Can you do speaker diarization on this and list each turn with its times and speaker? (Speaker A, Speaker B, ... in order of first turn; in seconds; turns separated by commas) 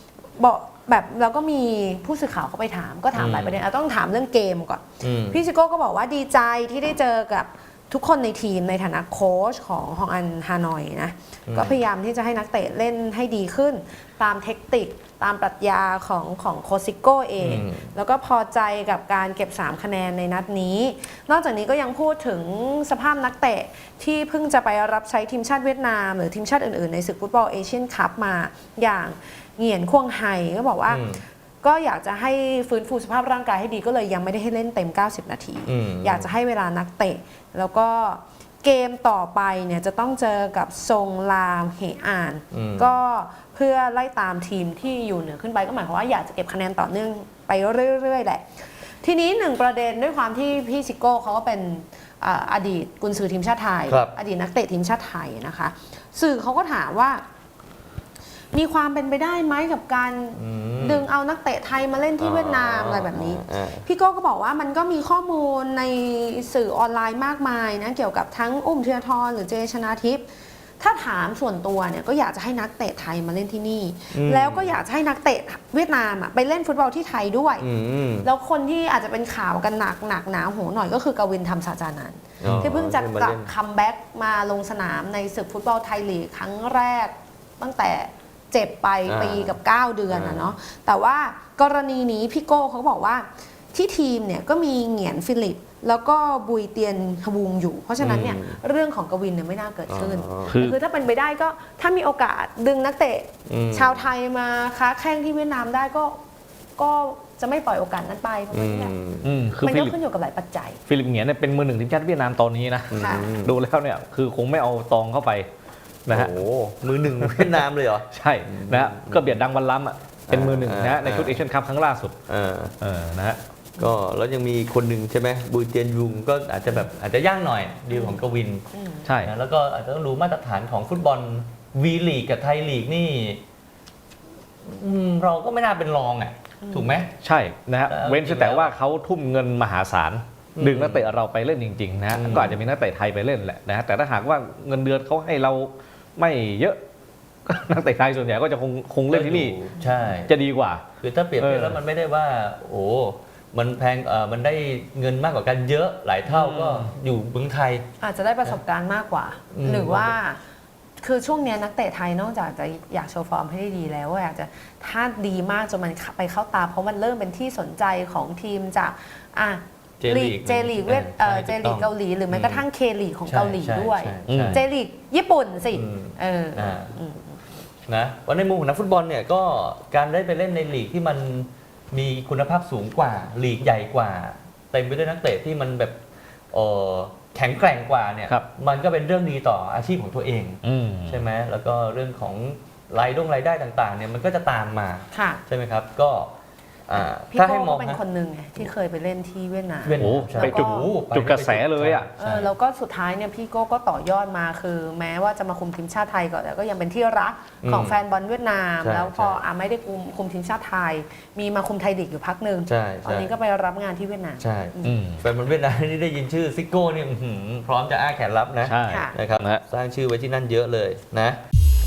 Speaker A: 0.4-31.0, Speaker B: 3.1-3.6, Speaker B: 5.0-5.4, Speaker B: 11.5-11.8, Speaker B: 17.4-17.9, Speaker B: 30.9-31.2, Speaker A: 31.6-48.4, Speaker B: 35.7-36.3, Speaker B: 42.5-43.0, Speaker A: 49.0-57.2, Speaker B: 53.9-54.1, Speaker A: 58.5-70.2, Speaker B: 60.4-61.0, Speaker B: 62.2-63.9, Speaker A: 70.8-77.6, Speaker B: 74.1-74.8, Speaker B: 77.6-78.3, Speaker A: 78.2-106.2, Speaker B: 82.4-83.5, Speaker B: 89.0-89.5, Speaker B: 90.1-90.5, Speaker B: 98.0-98.6, Speaker B: 99.9-100.5, Speaker C: 100.5-100.8, Speaker B: 103.5-104.1, Speaker A: 106.8-108.9, Speaker B: 108.5-109.3, Speaker C: 109.2-110.0, Speaker A: 109.6-110.8, Speaker C: 110.9-115.5, Speaker B: 112.9-113.5, Speaker A: 112.9-113.3, Speaker C: 116.1-116.3, Speaker B: 116.1-119.4, Speaker C: 117.2-122.2, Speaker B: 120.3-121.4, Speaker B: 122.3-122.8, Speaker C: 122.8-123.4, Speaker B: 123.8-128.7, Speaker A: 127.9-128.2, Speaker A: 128.7-129.1, Speaker C: 129.0-129.3, Speaker B: 129.2-133.4, Speaker B: 134.6-137.1, Speaker A: 136.6-136.9, Speaker C: 137.2-146.8, Speaker B: 137.9-138.7, Speaker B: 140.5-141.1, Speaker B: 142.1-142.6, Speaker C: 147.4-149.6, Speaker B: 149.1-150.3, Speaker C: 150.3-150.8, Speaker B: 151.0-157.8, Speaker C: 151.4-151.8, Speaker C: 156.3-156.9, Speaker A: 158.0-160.4, Speaker B: 159.5-160.2, Speaker A: 161.0-177.4, Speaker B: 170.0-172.6, Speaker B: 173.3-174.6, Speaker C: 174.3-174.6, Speaker B: 175.7-177.0, Speaker B: 177.9-186.0, Speaker B: 186.5-196.3, Speaker C: 190.6-191.2, Speaker A: 195.1-195.4, Speaker B: 196.9-198.0, Speaker A: 196.9-200.9, Speaker B: 199.8-202.5, Speaker C: 200.0-202.1, Speaker A: 202.2-215.0, Speaker B: 207.6-208.0, Speaker B: 208.8-209.4, Speaker B: 212.7-213.3, Speaker B: 214.4-221.4, Speaker C: 214.8-215.2, Speaker C: 218.6-219.6, Speaker A: 218.9-219.2